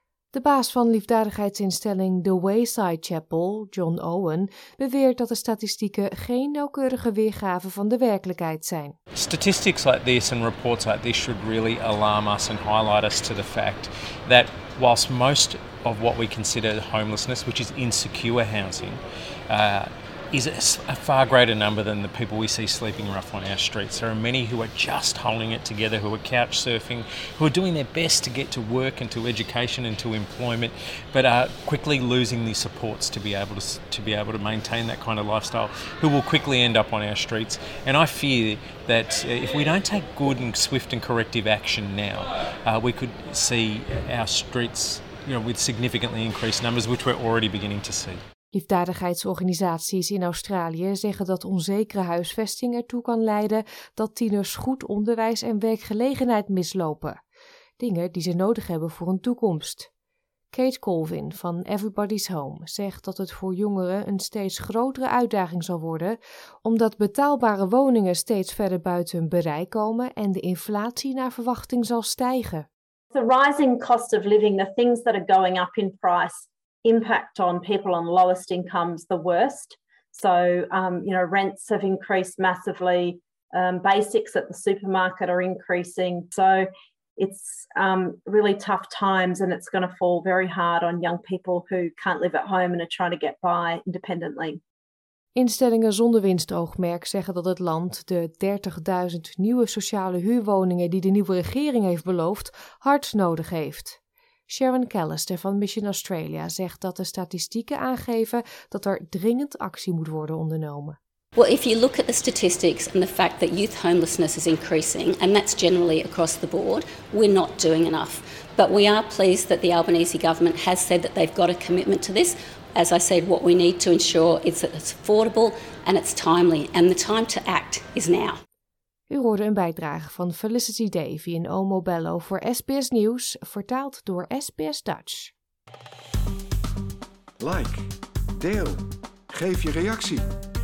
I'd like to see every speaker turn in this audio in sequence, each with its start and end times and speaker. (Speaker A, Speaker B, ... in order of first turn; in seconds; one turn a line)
Speaker A: 0.3-8.9
Speaker B: 9.1-48.2
Speaker A: 48.5-57.2
Speaker A: 57.8-59.9
Speaker A: 60.5-72.7
Speaker C: 73.1-86.7
Speaker C: 87.2-94.6
Speaker A: 95.3-111.0
Speaker D: 111.3-128.4
Speaker A: 129.1-135.3
Speaker E: 137.4-140.3